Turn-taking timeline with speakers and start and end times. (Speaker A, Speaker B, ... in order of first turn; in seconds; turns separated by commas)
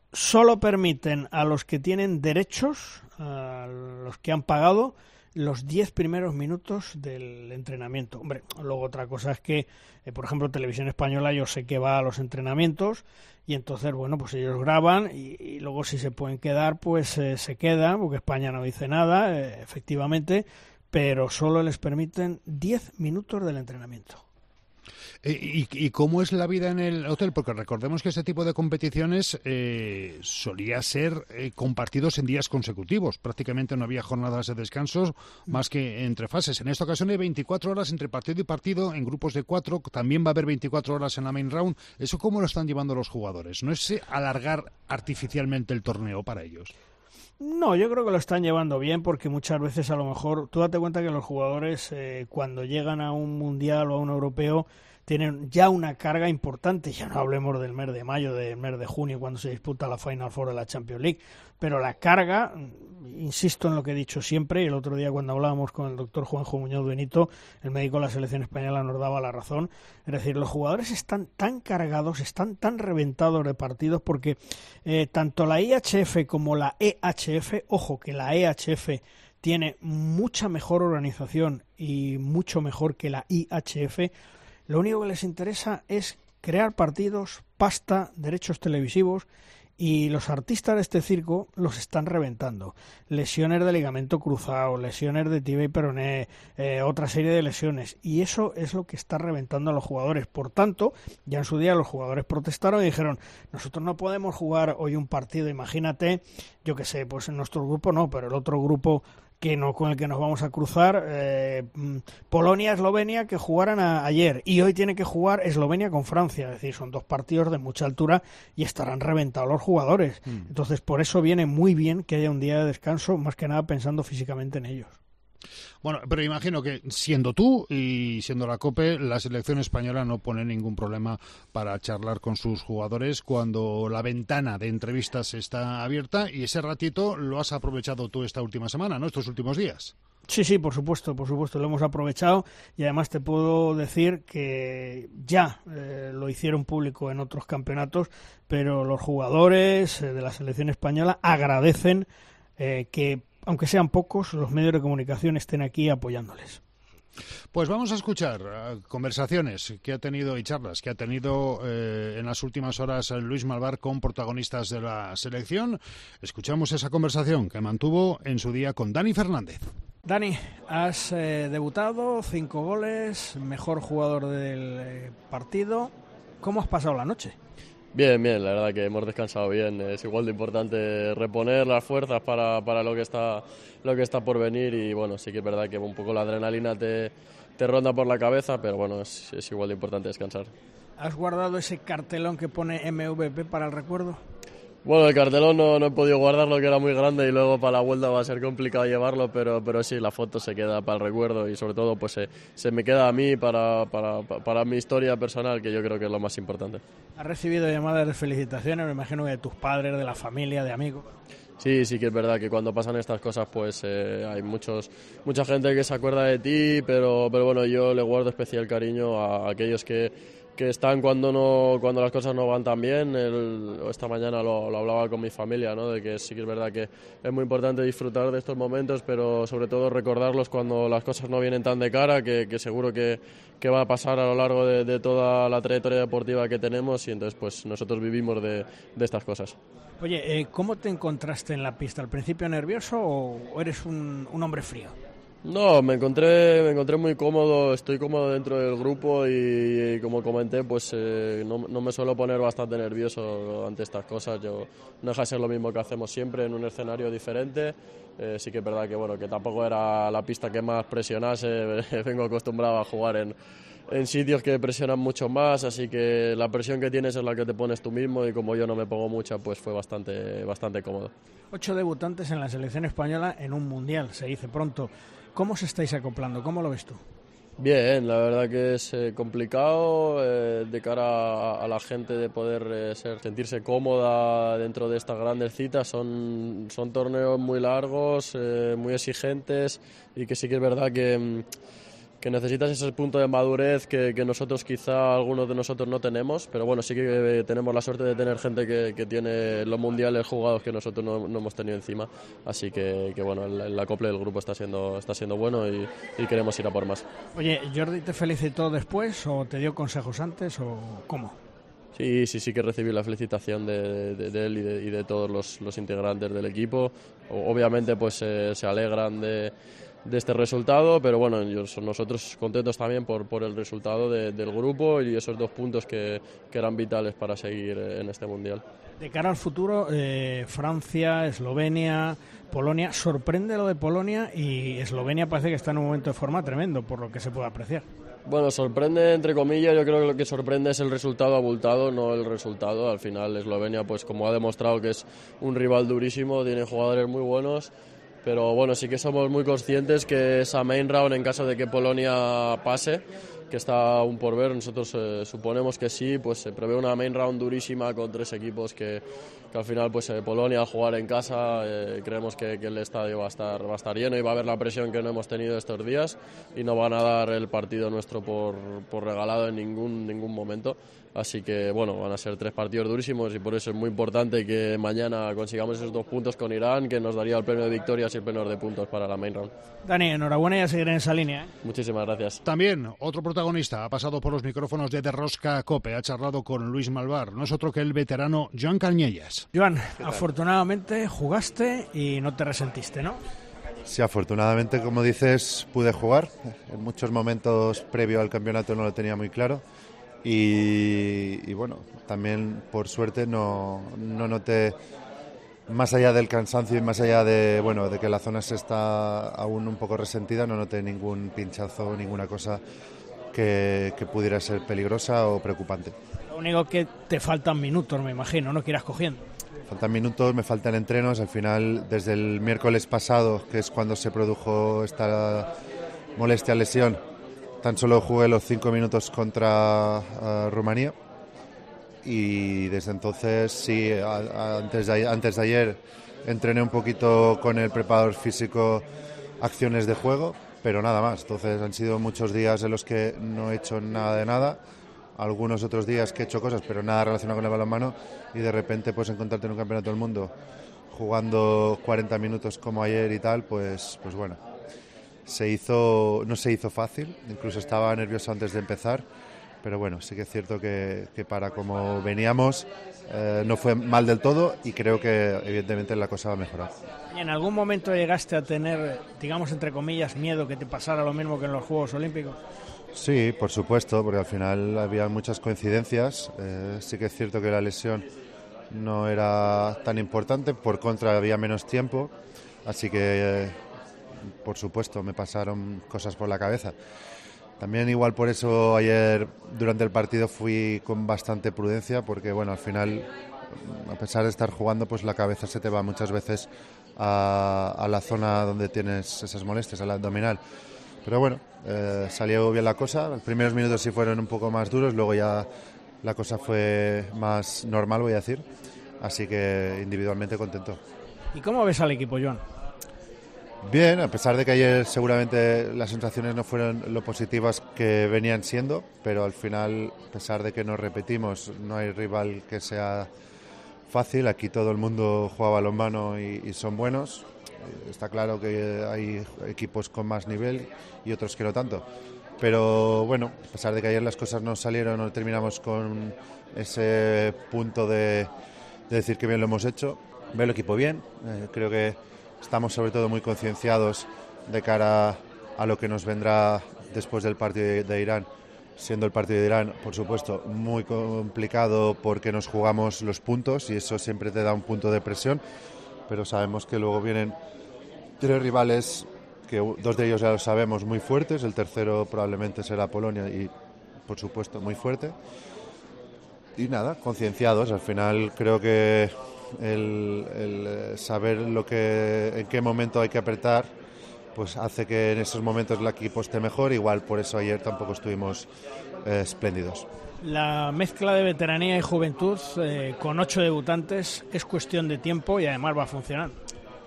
Speaker A: 0.1-24.2, Speaker B: 25.2-46.7, Speaker A: 47.4-84.1, Speaker A: 84.7-89.3, Speaker A: 89.8-125.0, Speaker B: 125.8-139.9, Speaker A: 140.3-156.6, Speaker B: 157.5-169.7, Speaker A: 170.1-177.4, Speaker C: 177.9-190.5, Speaker A: 191.0-194.2, Speaker C: 194.8-206.8, Speaker A: 207.2-211.1, Speaker C: 211.6-239.6, Speaker A: 240.0-244.9, Speaker C: 245.4-263.4, Speaker C: 263.9-271.1, Speaker A: 271.5-277.0, Speaker C: 277.6-291.5, Speaker C: 292.2-307.0, Speaker A: 307.4-311.4, Speaker C: 311.9-319.5, Speaker C: 320.1-328.6, Speaker A: 329.0-337.9, Speaker C: 338.3-347.7, Speaker C: 348.2-379.5, Speaker A: 379.8-381.5, Speaker C: 381.6-382.4, Speaker B: 382.4-389.5, Speaker A: 389.5-393.2, Speaker D: 393.9-399.6, Speaker D: 400.2-404.8, Speaker D: 405.7-412.6, Speaker D: 413.3-415.9, Speaker A: 416.3-419.2, Speaker D: 419.7-425.5, Speaker D: 426.2-427.0, Speaker D: 427.6-430.9, Speaker D: 432.0-438.9, Speaker D: 439.4-444.6, Speaker D: 445.2-450.3, Speaker D: 450.9-454.4, Speaker D: 455.3-459.1, Speaker D: 459.6-466.8, Speaker A: 467.1-472.4, Speaker D: 472.9-478.1, Speaker D: 478.7-482.1, Speaker D: 482.6-483.6, Speaker D: 484.4-486.7, Speaker D: 487.6-500.4, Speaker D: 501.0-505.5, Speaker D: 506.0-508.4, Speaker D: 509.0-510.8, Speaker A: 511.3-512.4, Speaker D: 513.6-523.1, Speaker D: 523.9-531.9, Speaker D: 532.4-538.3, Speaker D: 538.9-555.4, Speaker D: 556.1-557.4, Speaker D: 558.2-563.5, Speaker D: 564.1-565.1, Speaker D: 566.6-573.7, Speaker D: 574.4-578.5, Speaker D: 579.0-579.9, Speaker A: 580.2-586.4